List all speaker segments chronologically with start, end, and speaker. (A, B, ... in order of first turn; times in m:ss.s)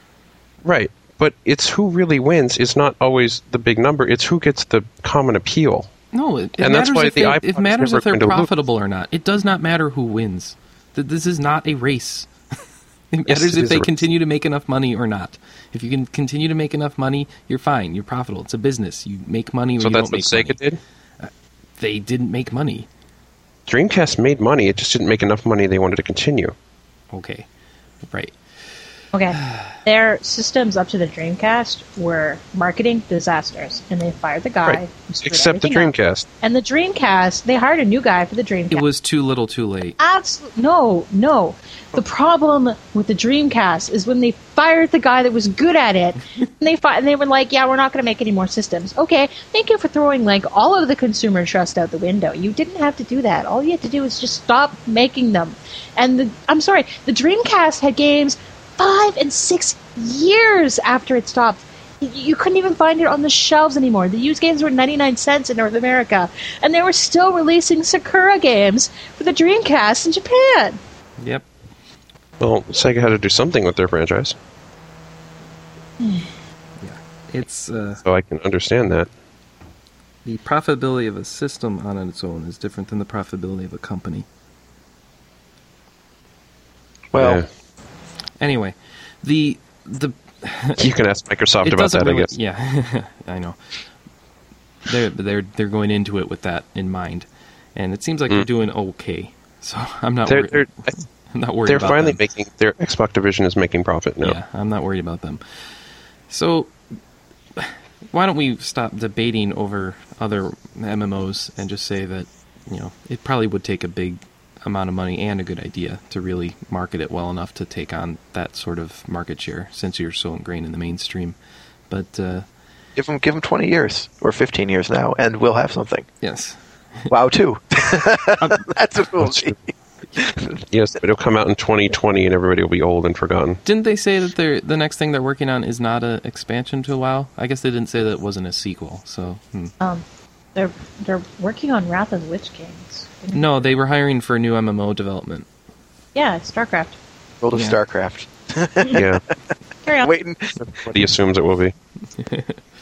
0:00.6-0:05.9 A
0:06.1-0:12.3 B
0:06.6-0:08.5 A
0:13.1-0:20.6 B
0:13.3-0:14.0 A
0:19.8-0:20.8 A
0:21.2-0:22.9 B
0:23.7-0:26.5 A
0:27.1-0:27.5 B
0:28.1-0:28.3 B
0:29.1-0:38.8 C
0:34.6-0:36.3 A
0:38.7-0:40.0 B
0:40.0-1:10.8 C
1:11.2-1:11.5 B
1:12.4-1:14.3 A
1:16.0-1:16.3 C
1:16.8-1:18.0 B
1:18.0-1:19.1 A
1:20.2-1:24.3 B
1:27.1-1:27.4 D
1:27.2-1:27.5 A
1:28.4-1:30.9 B
1:30.8-1:32.3 A
1:31.6-1:33.6 B
1:34.8-1:40.7 B
1:40.3-1:40.9 A
1:41.3-1:42.2 B
1:41.7-1:44.4 A
1:44.2-1:45.4 B
1:46.3-1:46.7 B
1:47.6-2:01.4 B
2:01.9-2:02.4 B
2:03.0-2:06.1 D
2:06.2-2:07.1 B
2:07.1-2:10.6 D
2:08.4-2:08.6 B
2:09.2-2:09.5 A
2:10.7-2:13.6 A
2:13.6-2:19.7 B
2:20.5-2:23.6 C
2:23.3-2:25.5 B
2:26.1-2:27.0 C
2:27.4-2:29.3 D
2:27.5-2:27.8 B
2:28.9-2:29.2 A
2:29.8-2:30.1 C
2:30.0-2:31.0 D
2:30.7-2:31.7 A
2:32.2-2:32.6 B